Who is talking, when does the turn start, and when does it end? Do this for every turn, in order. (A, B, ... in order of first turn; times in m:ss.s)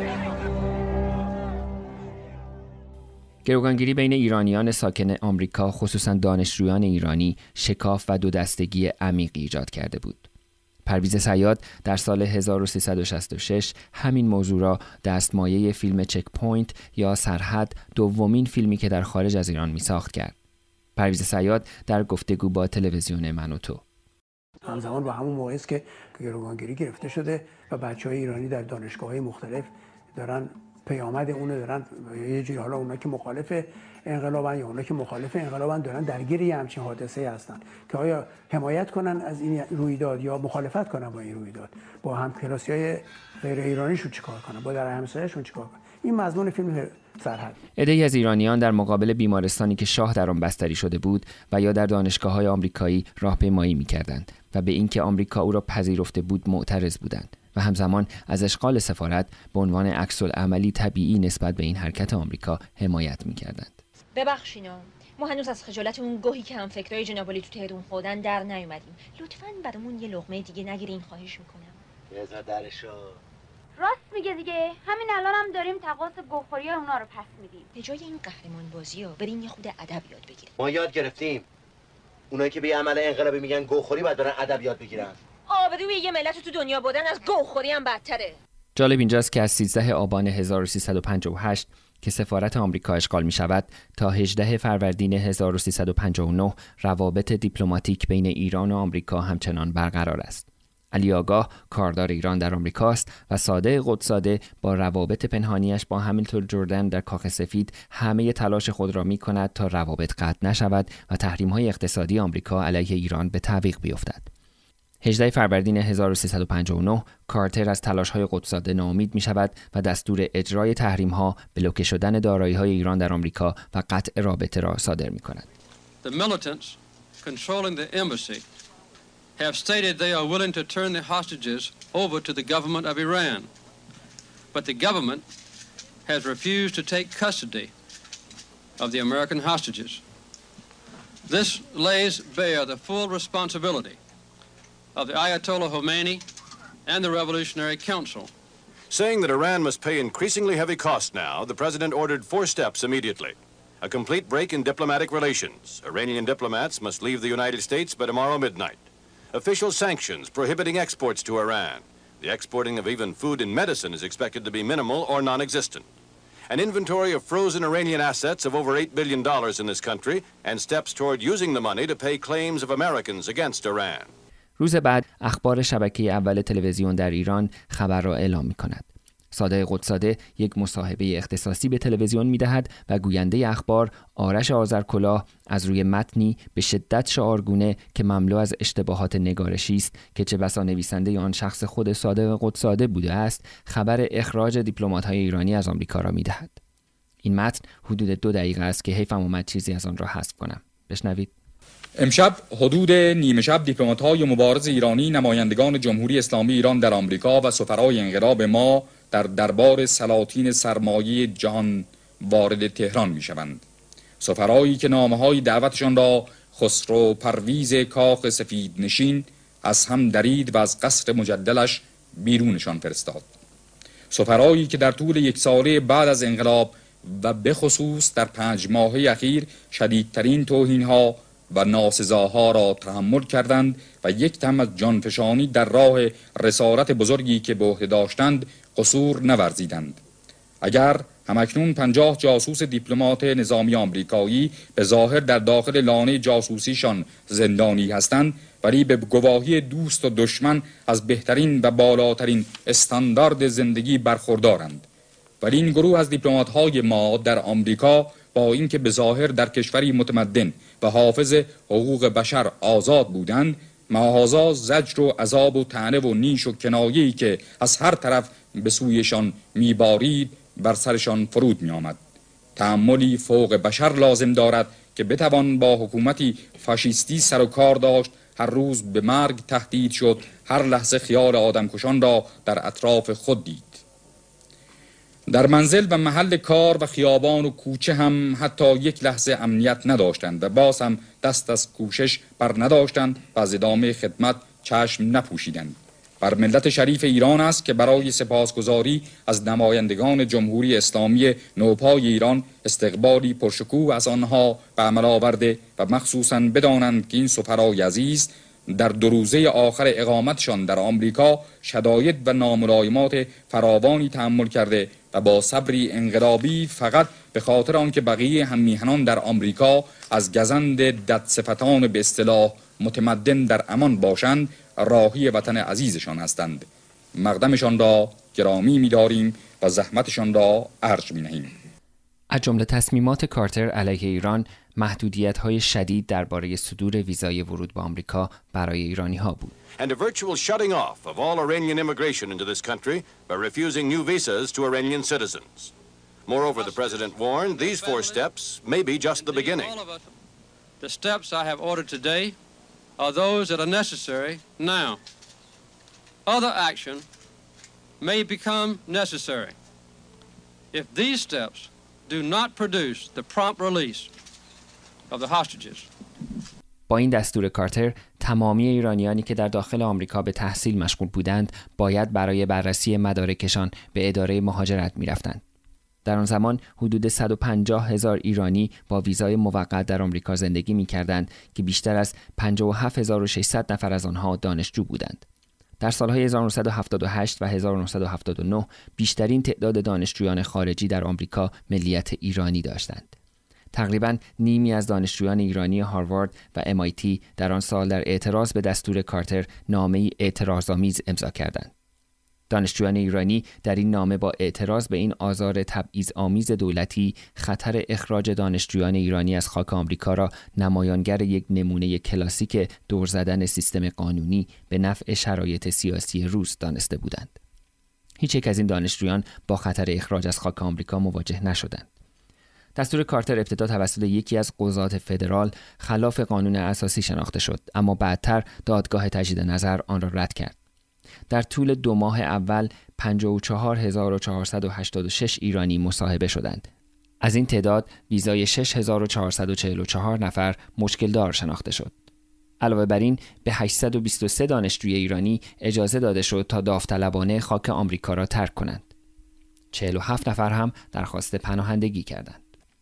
0:03.4-0:10.3 A
0:10.9-0:20.4 A
0:21.0-0:23.8 A
0:24.6-0:47.6 B
0:47.8-1:03.8 A
1:04.2-1:11.8 C
1:12.1-1:13.2 D
1:13.8-1:17.7 E
1:17.7-1:20.5 C
1:20.6-1:21.4 D
1:22.3-1:25.2 D
1:25.5-1:28.4 C
1:28.8-1:54.3 A
1:55.0-2:05.5 A
2:06.0-2:08.4 F
2:09.4-2:13.5 F
2:14.5-2:15.2 F
2:16.1-2:17.7 F
2:18.8-2:20.0 F
2:21.3-2:24.0 F
2:25.0-2:26.2 F
2:26.9-2:28.3 F
2:28.9-2:45.9 G
2:46.5-2:54.1 G
2:54.6-3:16.6 A
3:17.2-3:21.3 A
3:22.0-3:33.6 H
3:34.2-3:43.2 H
3:44.1-4:00.0 H
4:00.6-4:14.8 H
4:15.4-4:32.0 H
4:32.6-4:43.8 H
4:45.3-5:31.6 H
5:32.3-5:39.5 A
5:39.8-5:45.7 G
5:46.3-5:49.8 G
5:46.6-5:48.3 F
5:49.1-5:50.1 F
5:50.8-5:52.4 F
5:53.0-5:55.0 F
5:56.3-5:57.0 F
5:58.0-5:59.6 F
6:00.7-6:04.1 F
6:05.1-6:05.9 F
6:06.9-6:15.4 A
6:16.0-6:25.2 A
6:25.8-6:33.1 A
6:33.7-6:41.7 A
6:42.5-6:57.4 A
6:58.2-7:01.9 A
7:02.8-7:10.6 A
7:11.3-7:16.7 A
7:17.2-7:22.0 A
7:22.6-7:28.9 A
7:29.7-7:32.4 A